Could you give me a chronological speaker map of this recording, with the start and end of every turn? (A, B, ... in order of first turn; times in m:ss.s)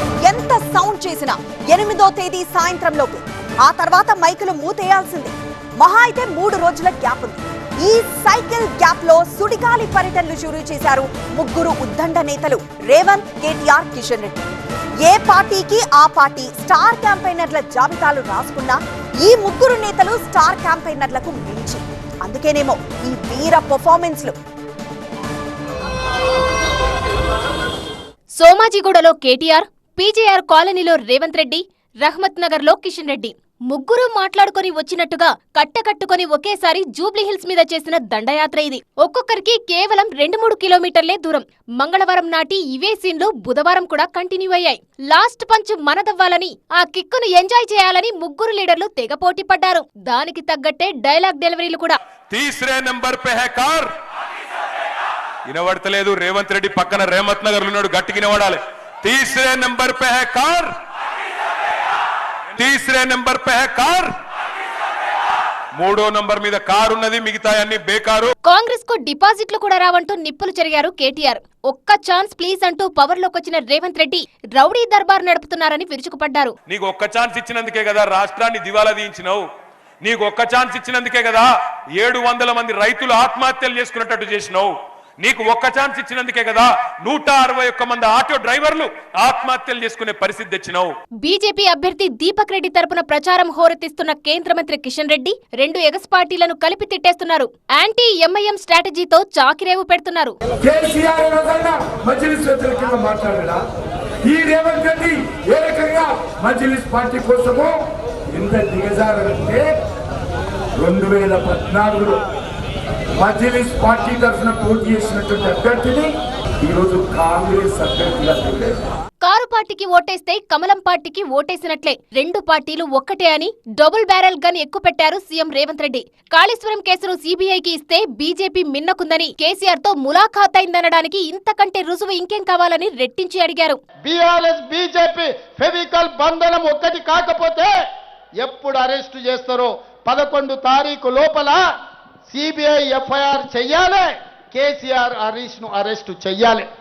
0:00.2-0:14.5 A
0:15.0-0:24.3 A
0:28.3-0:52.0 B
0:52.3-0:53.9 C
0:55.5-1:00.7 C
1:02.6-1:04.1 C
1:05.8-1:08.3 C
1:08.4-1:16.5 B
1:16.7-1:19.4 C
1:20.0-1:21.5 C
1:22.0-1:30.9 C
1:31.2-1:40.3 B
1:40.6-1:43.6 D
1:44.2-1:47.8 D
1:48.3-1:49.7 D
1:50.8-1:52.2 D
1:53.1-1:58.8 D
1:59.2-2:13.8 B
2:14.0-2:17.7 E
2:18.4-2:21.6 E
2:22.3-2:26.7 E